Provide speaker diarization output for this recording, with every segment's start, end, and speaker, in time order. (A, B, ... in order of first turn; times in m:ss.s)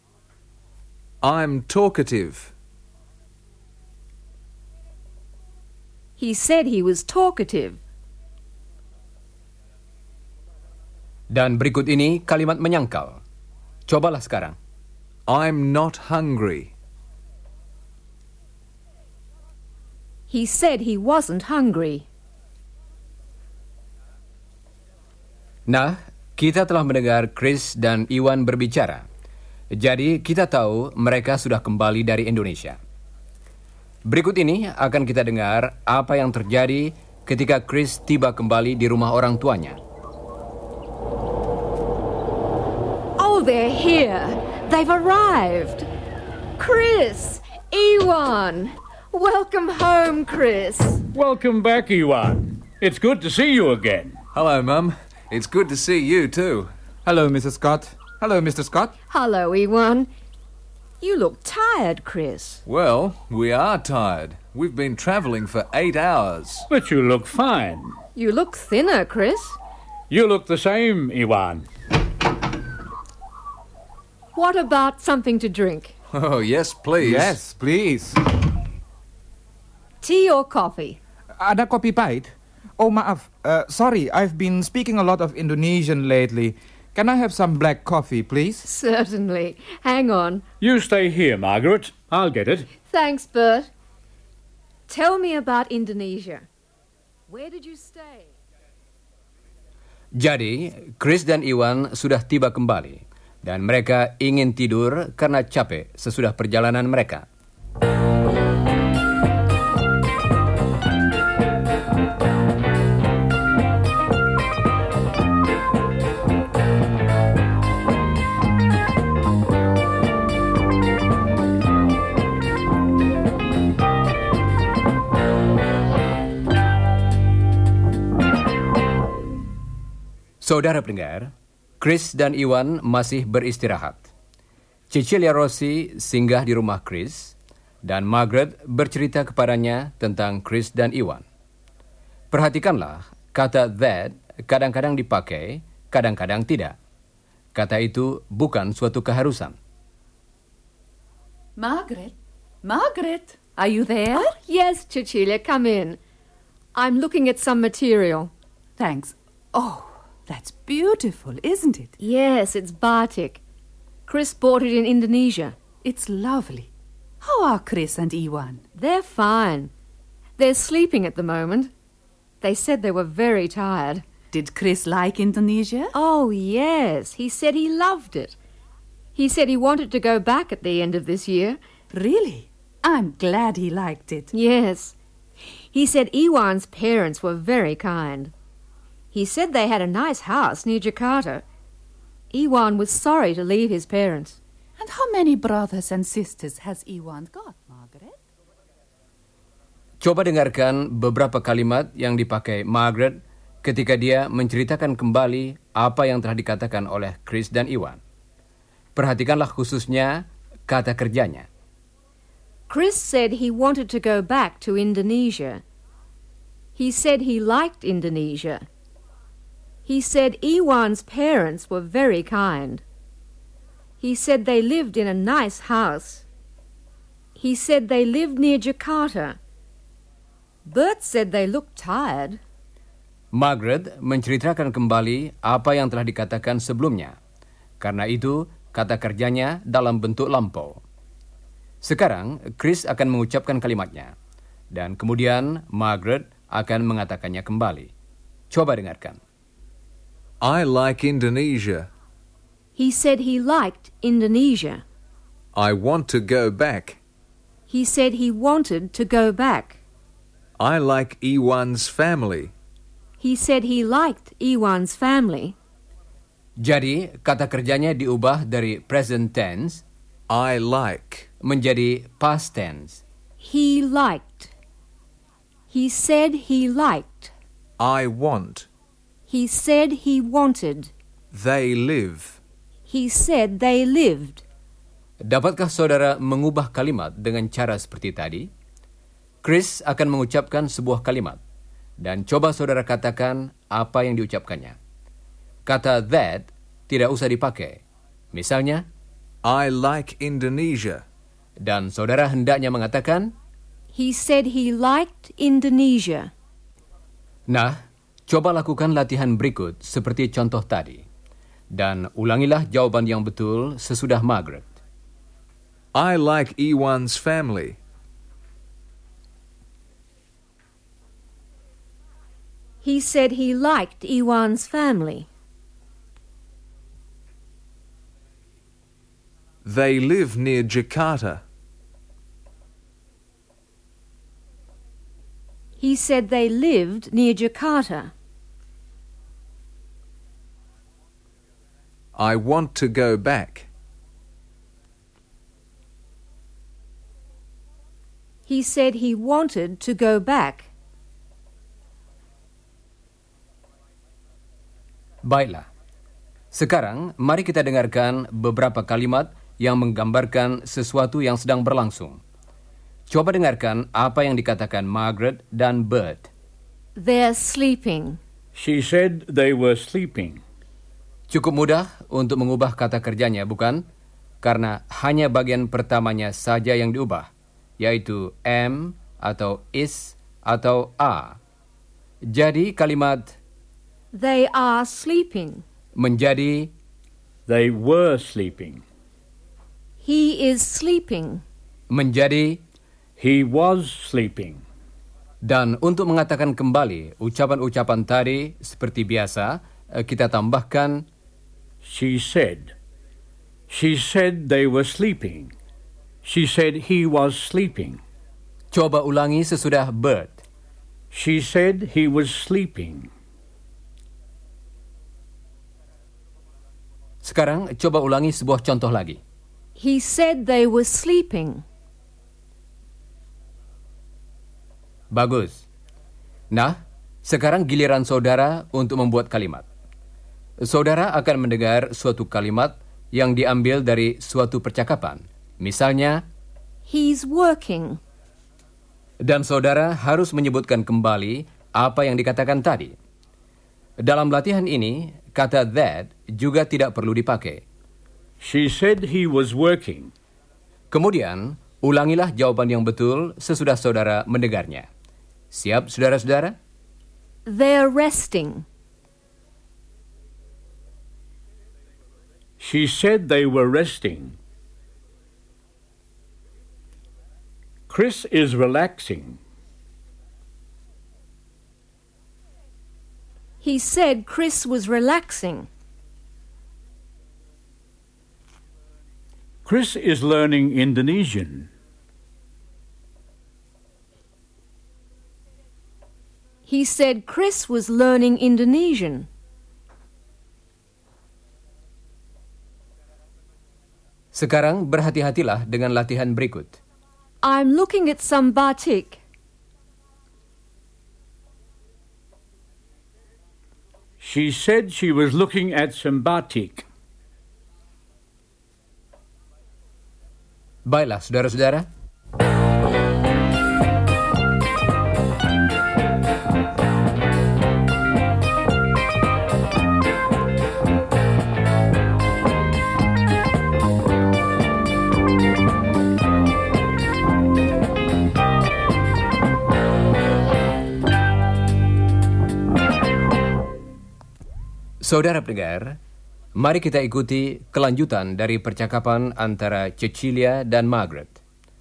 0:01.2-0:02.5 A
0:06.2-0:07.8 B
0:11.3-0:13.2 C
0:13.9-0:14.6 C
0:15.3-0:16.7 A
0:20.3-0:22.1 B
0:25.7-0:29.0 C
0:29.7-0:32.8 C
0:34.0-0:39.8 C
0:43.2-0:45.9 B
0:46.6-0:51.0 B
0:51.1-0:54.2 D
0:54.3-0:56.7 A
0:57.0-0:58.9 E
0:59.1-1:00.1 B
1:01.0-1:02.6 B
1:02.6-1:06.7 A
1:06.7-1:08.0 D
1:08.2-1:09.6 B
1:10.1-1:11.6 D
1:14.3-1:15.9 B
1:16.1-1:17.4 A
1:17.0-1:18.2 E
1:20.0-1:21.0 B
1:21.4-1:28.6 E
1:28.6-1:30.4 B
1:30.6-1:32.7 D
1:32.9-1:33.7 B
1:34.9-1:36.5 B
1:37.3-1:38.3 B
1:40.2-1:47.2 C
2:10.4-2:14.1 C
2:14.9-2:21.2 C
2:22.3-2:26.8 C
2:27.5-2:29.6 C
2:31.6-2:34.3 F
2:34.1-2:36.0 B
2:36.7-2:38.3 B
2:38.8-2:41.9 F
2:42.0-2:43.4 B
2:44.1-2:45.6 B
2:45.8-2:46.7 F
2:47.2-2:48.6 F
2:48.8-2:49.7 B
2:50.4-2:51.7 B
2:52.4-2:54.0 B
2:54.3-2:55.9 F
2:55.9-2:58.4 B
2:59.1-3:01.6 B
3:01.9-3:04.3 F
3:04.3-3:05.0 B
3:05.7-3:08.3 B
3:09.1-3:11.4 B
3:12.3-3:14.4 B
3:14.8-3:18.2 F
3:20.0-3:28.0 C
3:28.9-3:31.5 C
3:32.7-3:35.6 B
3:36.8-3:38.7 B
3:39.8-3:42.8 B
3:44.0-3:46.2 B
3:47.4-3:49.4 B
3:50.6-3:52.4 B
3:53.3-3:57.2 C
3:57.8-4:00.8 C
4:01.8-4:04.1 C
4:04.7-4:07.9 C
4:08.5-4:09.2 C
4:10.4-4:11.9 A
4:12.8-4:14.8 B
4:15.5-4:17.0 A
4:17.7-4:19.8 B
4:20.6-4:22.5 A
4:23.2-4:25.6 B
4:26.6-4:29.8 C
4:30.3-4:31.3 A
4:31.4-4:33.0 C
4:33.4-4:34.5 B
4:35.7-4:37.3 B
4:37.8-4:38.7 A
4:39.3-4:40.9 B
4:41.3-4:42.4 A
4:42.9-4:44.4 B
4:45.2-4:48.5 C
4:49.4-4:51.4 C
4:52.0-4:54.8 C
4:55.6-4:57.8 C
4:58.3-4:58.8 C
4:59.4-5:01.0 A
5:01.6-5:03.3 C
5:03.9-5:06.3 B
5:07.5-5:11.0 C
5:11.7-5:14.7 C
5:15.9-5:17.8 A
5:22.8-5:25.3 B
5:29.6-5:31.4 A
5:35.8-5:38.1 B
5:42.1-5:43.7 A
5:48.4-5:50.7 B
5:55.2-5:55.7 C
5:56.5-6:02.2 C
6:03.1-6:06.3 C
6:07.0-6:08.2 B
6:08.5-6:10.4 D
6:11.3-6:13.8 C
6:14.4-6:21.4 C
6:22.2-6:23.4 C
6:24.1-6:25.6 B
6:26.0-6:26.7 C
6:27.5-6:28.8 D
6:30.0-6:31.4 B
6:31.9-6:32.6 C
6:33.2-6:34.6 D
6:35.4-6:41.0 C
6:41.8-6:42.7 D
6:43.7-6:45.5 D
6:46.2-6:48.0 D
6:48.7-6:50.4 C
6:51.1-6:53.1 D
6:57.2-6:59.2 C
6:59.8-7:01.6 B
7:05.1-7:05.6 C
7:06.5-7:09.6 C
7:10.6-7:16.2 C
7:16.8-7:18.0 B
7:19.2-7:22.9 C
7:24.0-7:27.6 C
7:28.4-7:30.1 D
7:30.9-7:34.9 C
7:35.5-7:36.6 C
7:37.4-7:38.6 B
7:42.6-7:44.4 D
7:47.9-7:49.4 D
7:53.6-7:55.7 B
7:59.6-8:01.7 D
8:06.7-8:09.3 B
8:14.3-8:16.8 C
8:17.4-8:19.2 B
8:24.2-8:26.8 D
8:30.8-8:31.9 C
8:55.0-8:56.0 C
8:56.6-9:01.4 C